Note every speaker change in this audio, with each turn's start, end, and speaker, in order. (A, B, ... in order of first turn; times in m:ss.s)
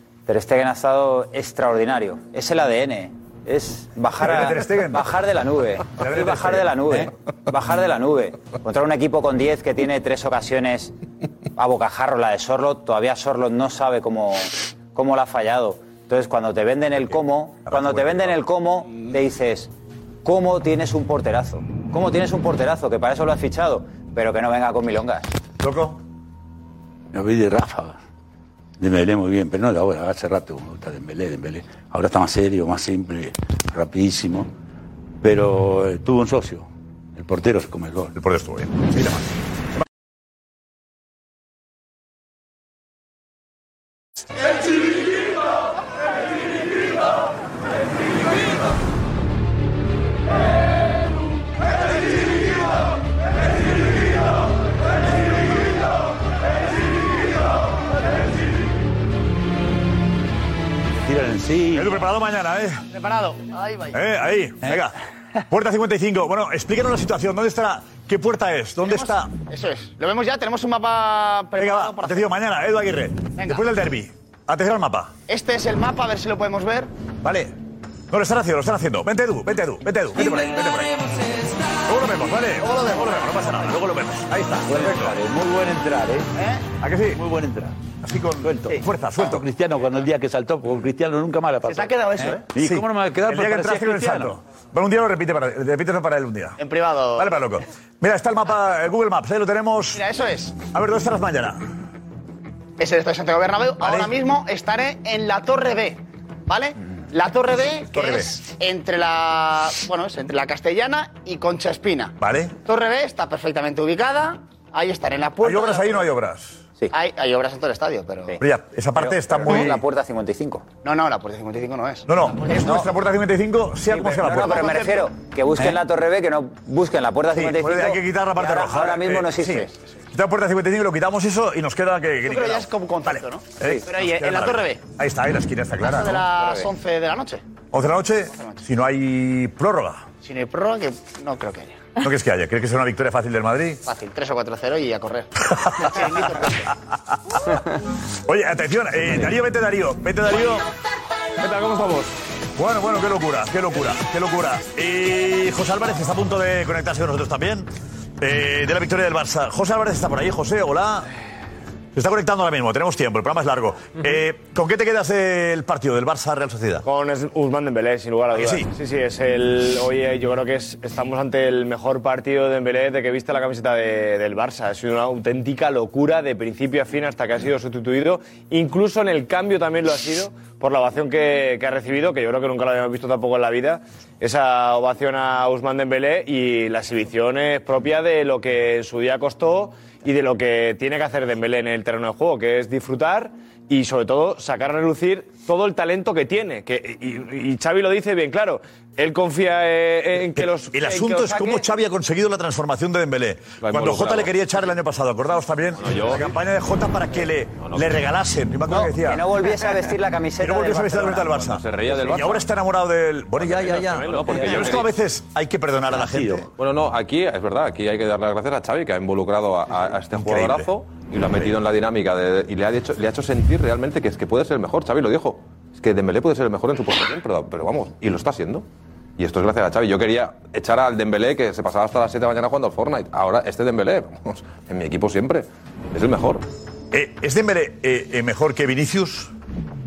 0:00.3-0:10.9 A
0:04.2-0:05.2 B
0:05.9-0:07.1 B
0:11.6-0:19.7 A
0:17.7-0:18.4 B
0:20.2-0:25.3 A
0:25.6-0:26.0 B
0:27.1-0:28.0 C
0:28.8-0:34.5 C
0:35.2-0:38.1 C
0:38.2-0:39.3 B
1:01.0-1:01.9 C
1:01.7-1:02.9 B
1:02.9-1:03.9 D
1:03.9-1:05.0 B
1:05.5-1:09.3 B
1:08.8-1:12.3 D
1:11.6-1:15.1 B
1:15.3-1:16.9 D
1:17.2-1:17.5 B
1:18.1-1:21.0 B
1:21.9-1:25.2 B
1:22.6-1:23.5 D
1:24.7-1:26.3 C
1:26.4-1:26.6 D
1:26.8-1:27.2 B
1:27.1-1:27.8 C
1:28.0-1:29.5 B
1:28.4-1:34.4 C
1:31.6-1:32.5 D
1:32.6-1:36.6 B
1:36.6-1:37.4 D
1:37.2-1:40.0 B
1:39.9-1:40.6 D
1:40.7-1:41.6 B
1:42.8-1:56.0 D
1:43.8-1:44.1 B
1:47.9-1:48.3 B
1:52.2-1:52.6 B
1:55.4-1:56.7 B
1:56.9-1:58.4 D
1:58.4-1:59.8 B
1:59.0-2:00.7 A
2:00.8-2:02.6 D
2:02.1-2:04.8 B
2:02.6-2:02.9 A
2:03.9-2:09.6 A
2:04.2-2:05.0 D
2:07.3-2:16.4 B
2:12.2-2:14.8 D
2:15.8-2:17.4 D
2:17.7-2:20.1 B
2:20.2-2:21.8 D
2:22.0-2:23.8 B
2:23.8-2:26.7 D
2:25.5-2:26.0 B
2:28.3-2:30.6 B
2:31.6-2:31.9 E
2:32.6-2:37.7 B
2:38.2-2:41.1 B
2:42.0-2:46.8 B
2:46.8-3:21.7 E
2:48.3-2:48.7 B
3:20.4-3:29.4 B
3:23.6-3:24.3 F
3:25.8-3:26.4 F
3:27.6-3:28.0 F
3:28.7-3:31.4 A
3:30.4-3:36.5 B
3:31.4-3:32.5 F
3:33.4-3:34.9 F
3:35.9-3:36.5 C
3:36.6-3:48.6 F
3:40.1-3:40.7 B
3:49.2-3:56.4 F
3:56.9-3:59.3 B